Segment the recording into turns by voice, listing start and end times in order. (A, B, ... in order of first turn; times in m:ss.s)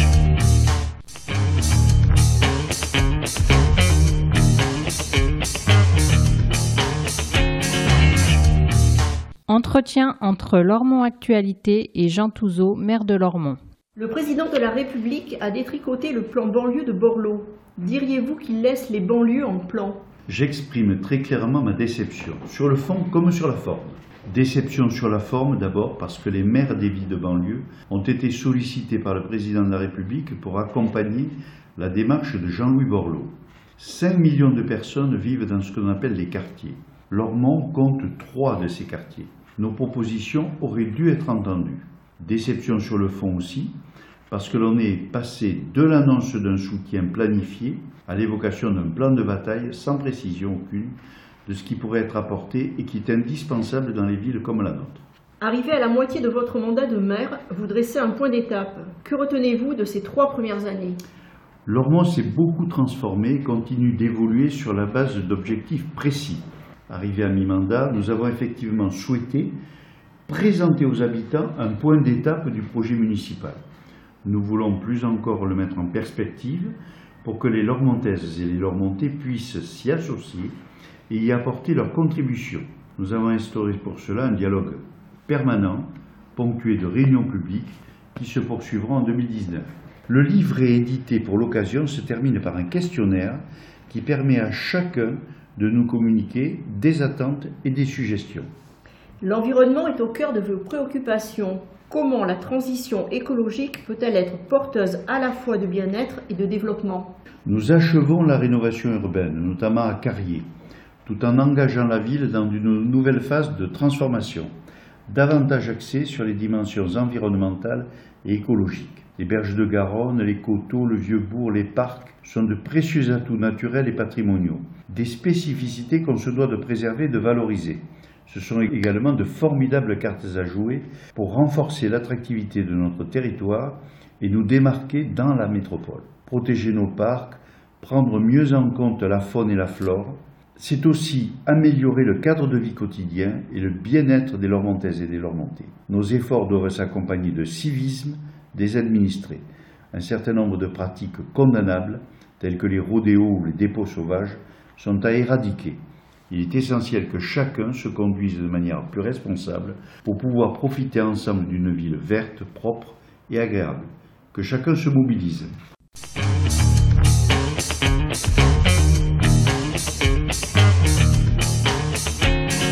0:09.5-0:13.6 A
0:14.0-0:20.0 B
0:20.3-0:43.7 C
0:44.3-0:50.9 C
0:51.4-0:55.0 C
0:55.4-1:01.0 B
1:01.6-1:09.5 C
1:10.3-1:13.6 C
1:14.2-1:20.5 C
1:21.1-1:38.5 C
1:39.2-1:47.1 B
1:47.4-1:50.4 C
1:51.0-1:54.5 C
1:55.1-2:45.5 C